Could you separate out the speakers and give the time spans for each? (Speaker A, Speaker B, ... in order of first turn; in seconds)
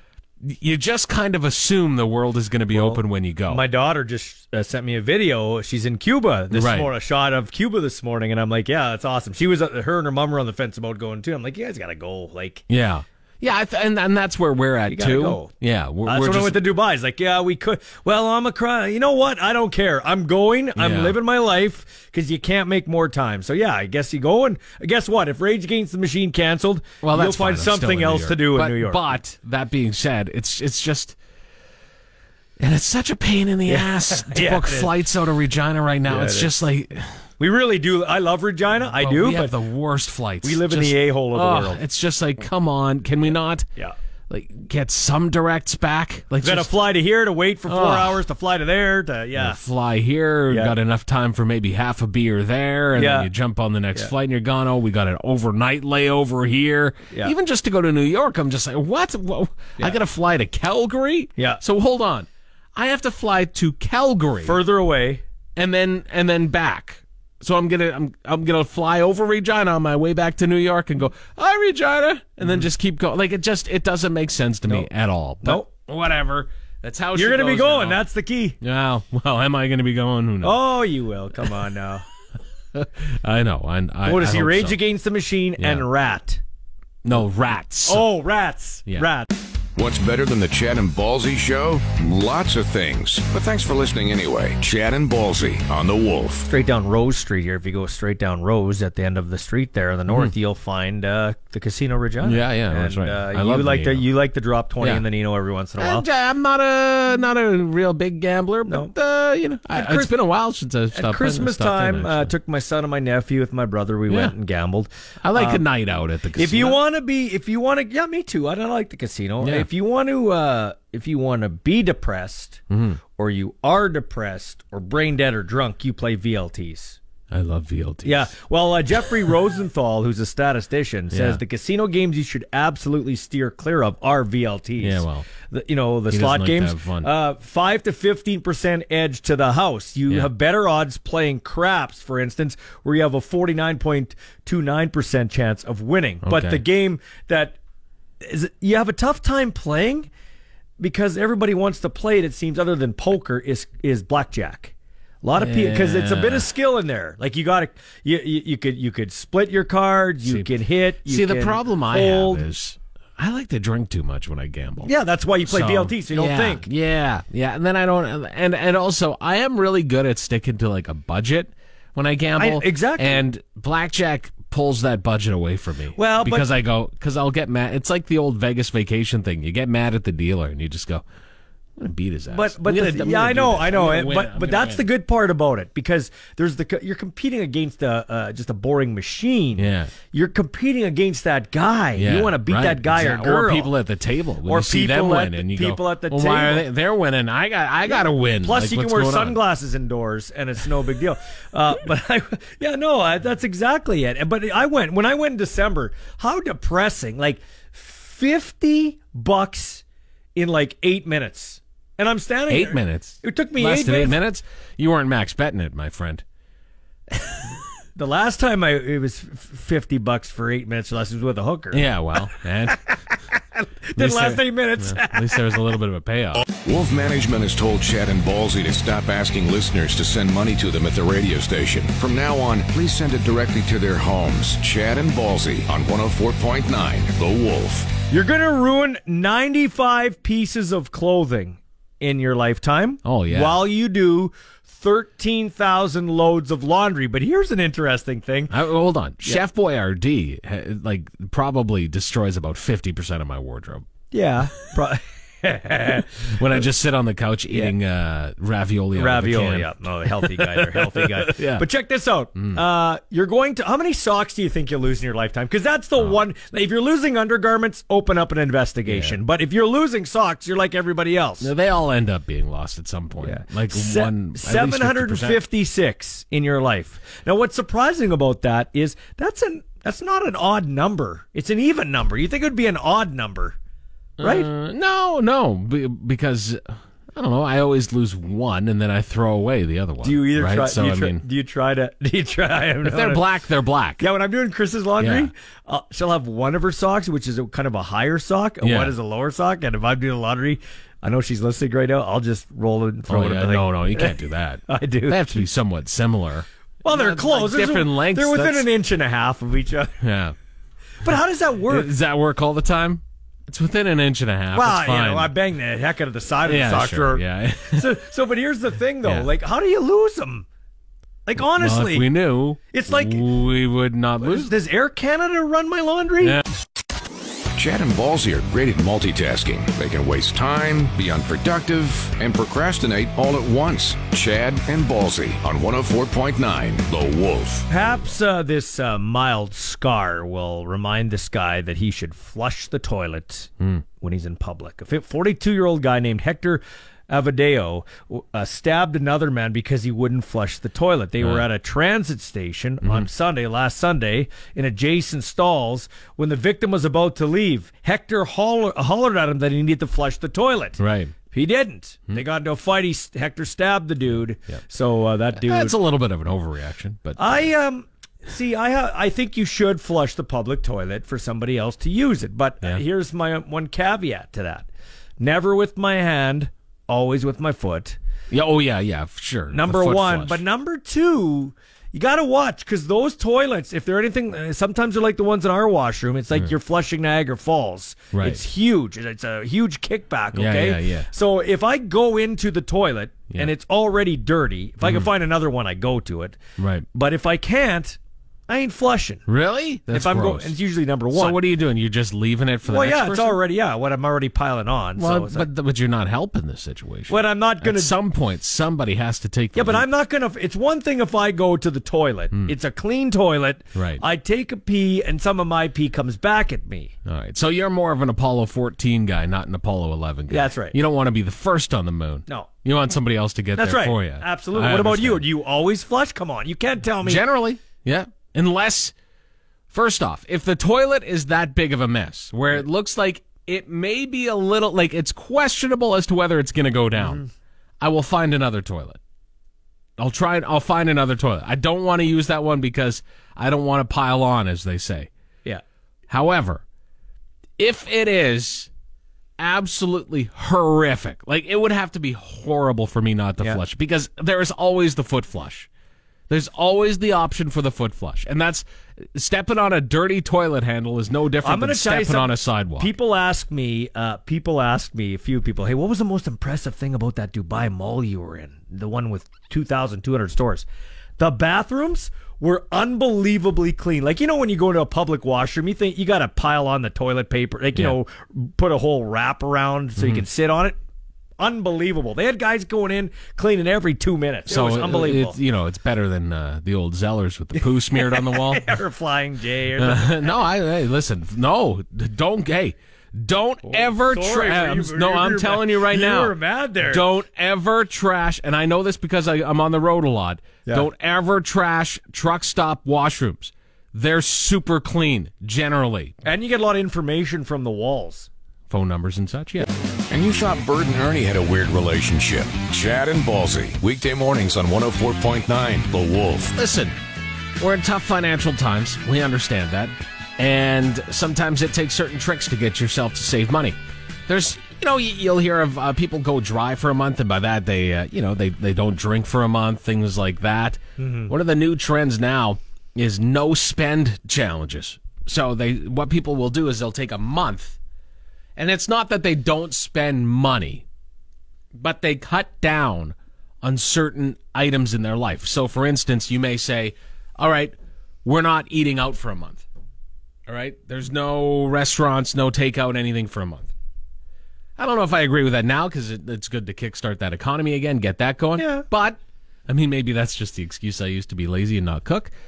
Speaker A: 0.4-3.6, 6.5-6.9, 12.7-16.6, 20.8-21.2, 27.0-31.1, 32.6-37.2, 39.0-43.7, 44.3-46.7, 47.7-48.2, 49.4-64.6, 65.5-78.0, 78.6-80.6, 82.7-84.8, 85.6-85.8, 87.0-88.0, 102.2-104.1, 105.8-112.3, 114.1-114.3, 115.2-116.8, 119.4-119.7, 122.7-123.0, 127.3-128.3, 131.1-131.4, 134.8-135.2, 136.1-137.1, 146.2-146.6, 155.4-156.4, 161.1-164.9, 165.4-181.0, 181.8-184.8, 189.6-189.9, 191.9-199.4, 212.5-216.2, 221.7-223.0, 224.0-226.4, 243.0-243.6, 248.5-253.9, 256.2-261.6, 268.9-269.2, 271.4-275.4, 284.2-291.2, 292.8-294.0, 295.0-295.3, 298.6-298.9, 303.1-308.7, 310.0-310.3, 311.7-315.3, 316.4-318.0, 319.0-319.3, 321.4-324.5, 351.2-351.4, 352.8-353.1, 360.8-361.1, 365.4-367.5, 378.3-380.4, 388.1-388.4, 390.3-391.1, 394.8-395.1, 396.6-396.9, 399.3-400.6, 401.1-403.4, 405.0-409.9, 413.7-414.0, 417.1-425.2, 427.0-428.9, 429.7-437.2, 437.8-439.0, 440.0-445.1, 446.1-446.6, 447.6-448.7, 449.4-455.7, 456.3-462.9, 480.0-480.2, 484.5-488.7, 489.8-506.1, 508.7-509.7, 516.5-516.9, 517.6-523.8, 524.3-537.8, 538.5-540.8, 541.7-547.7, 548.2-549.6, 550.5-553.7, 554.8-562.3
Speaker B: 2.7-12.7, 14.9-15.5, 16.0-29.0, 33.7-34.9, 36.1-36.5, 37.4-39.6, 40.4-41.8, 46.4-49.6, 53.0-53.3, 61.4-61.6, 64.4-65.2, 77.1-78.6, 80.4-82.0, 84.0-86.4, 87.8-89.3, 96.5-106.0, 108.7-108.9, 109.7-110.1, 110.9-115.6, 116.3-122.6, 123.2-127.0, 128.0-147.6, 148.2-150.1, 150.8-162.4, 164.8-166.7, 172.4-173.2, 175.9-176.5, 182.3-193.7, 194.5-196.7, 197.9-209.8, 210.3-214.2, 217.9-221.9, 223.6-225.5, 238.1-248.5, 254.1-256.6, 258.9-271.5, 273.2-283.6, 284.2-284.5, 290.0-293.2, 294.0-305.4, 306.8-309.9, 311.0-311.9, 314.5-320.4, 321.2-322.1, 322.7-323.3, 324.2-326.4, 337.7-360.8, 361.3-365.8, 367.2-374.7, 375.2-378.0, 379.5-396.4, 396.9-399.2, 399.9-401.4, 402.6-405.5, 407.1-407.9, 409.5-416.9, 420.3-420.8, 423.6-427.2, 461.4-470.6, 471.2-480.8, 481.4-485.4, 487.6-490.3, 493.6-497.1, 506.2-508.3, 531.0-531.3, 558.6-558.8
Speaker C: 89.8-96.5, 226.5-237.9, 327.5-337.6, 510.1-516.5